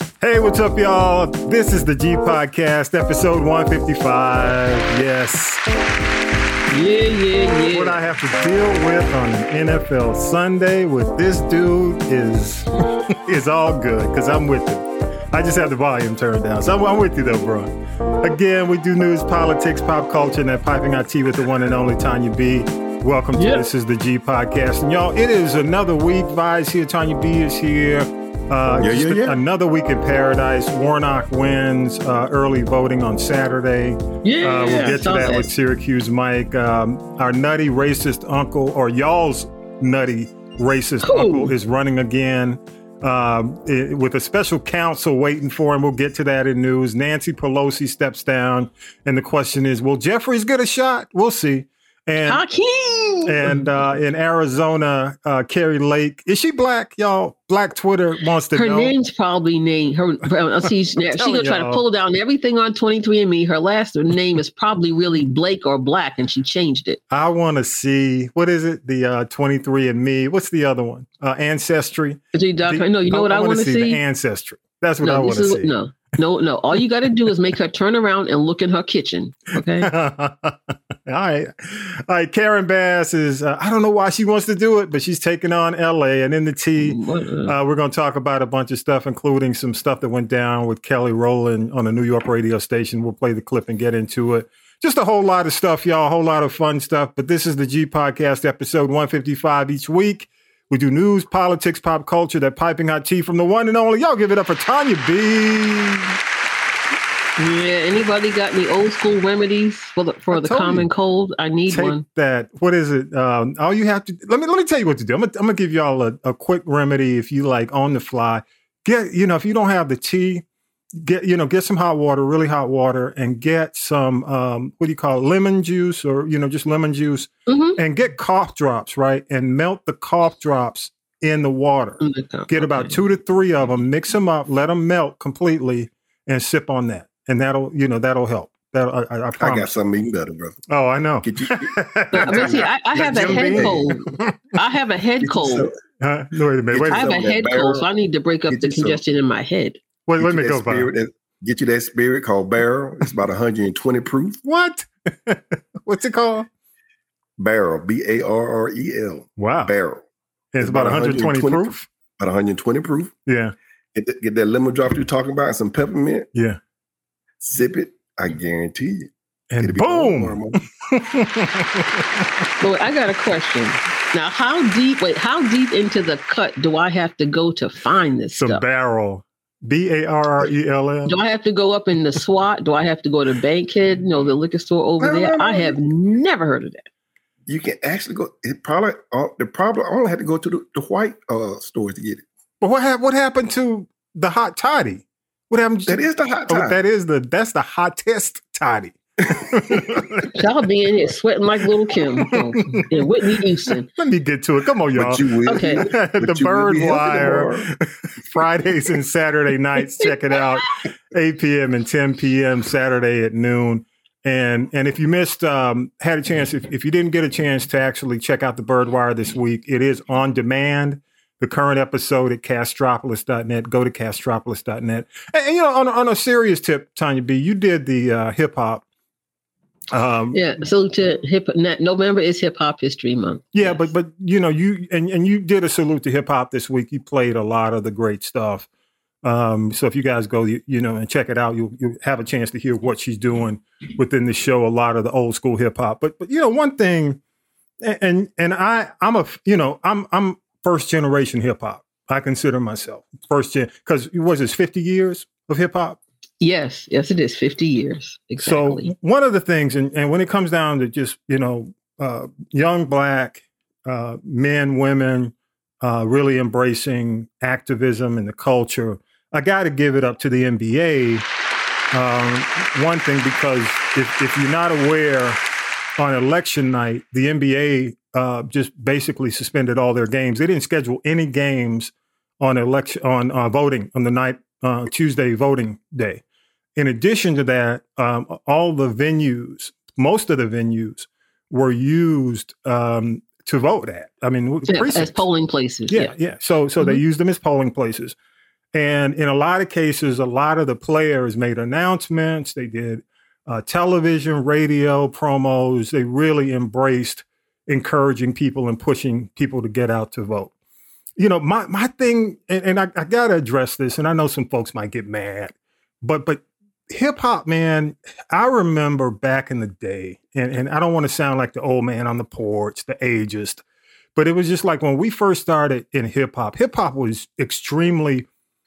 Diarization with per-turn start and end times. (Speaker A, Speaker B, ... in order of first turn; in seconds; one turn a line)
Speaker A: 0.2-5.6
Speaker B: 6.7-8.0
Speaker A: 7.7-52.4
Speaker B: 23.4-23.6
Speaker C: 28.7-29.4
Speaker B: 34.2-35.5
Speaker B: 41.0-41.5
Speaker B: 52.2-53.6
Speaker A: 53.2-58.9
Speaker B: 58.5-67.0
Speaker A: 61.0-61.8
Speaker A: 67.1-75.7
Speaker B: 72.3-74.0
Speaker B: 75.0-79.9
Speaker A: 79.8-106.2
Speaker B: 86.8-87.5
Speaker B: 107.4-112.0
Speaker A: 110.3-110.9
Speaker A: 111.7-120.4
Speaker A: 121.0-139.7
Speaker B: 127.5-127.8
Speaker B: 132.0-133.0
Speaker C: 139.4-140.6
Speaker A: 140.7-144.3
Speaker C: 141.2-144.1
Speaker B: 142.1-143.9
Speaker B: 144.6-145.7
Speaker C: 145.2-145.8
Speaker A: 146.0-147.2
Speaker C: 146.7-147.9
Speaker B: 146.9-149.8
Speaker C: 148.5-149.0
Speaker A: 150.1-150.9
Speaker C: 150.2-154.4
Speaker A: 154.4-156.5
Speaker C: 157.4-160.0
Speaker A: 159.4-159.7
Speaker A: 160.5-161.9
Speaker C: 160.6-163.1
Speaker A: 163.2-163.5
Speaker C: 163.9-166.3
Speaker A: 166.3-166.6
Speaker C: 167.4-170.6
Speaker A: 169.5-172.4
Speaker B: 172.6-178.6
Speaker A: 178.4-181.2
Speaker B: 181.1-186.8
Speaker C: 185.0-185.8
Speaker C: 187.5-192.2
Speaker A: 192.6-200.3
Speaker C: 195.9-196.8
Speaker B: 200.3-203.9
Speaker A: 202.2-203.1
Speaker A: 203.9-228.8
Speaker C: 204.9-207.7
Speaker B: 205.4-205.8
Speaker A: 229.9-230.4
Speaker B: 230.3-233.8
Speaker A: 233.5-238.7
Speaker A: 239.2-247.2
Speaker A: 247.8-256.0
Speaker B: 256.4-258.9
Speaker A: 258.4-271.2
Speaker A: 271.9-275.4
Speaker A: 276.0-286.2
Speaker A: 286.8-295.3
Speaker B: 294.7-296.1
Speaker A: 295.9-298.1
Speaker A: 298.7-310.5
Speaker A: 311.2-323.6
Speaker A: 324.1-328.3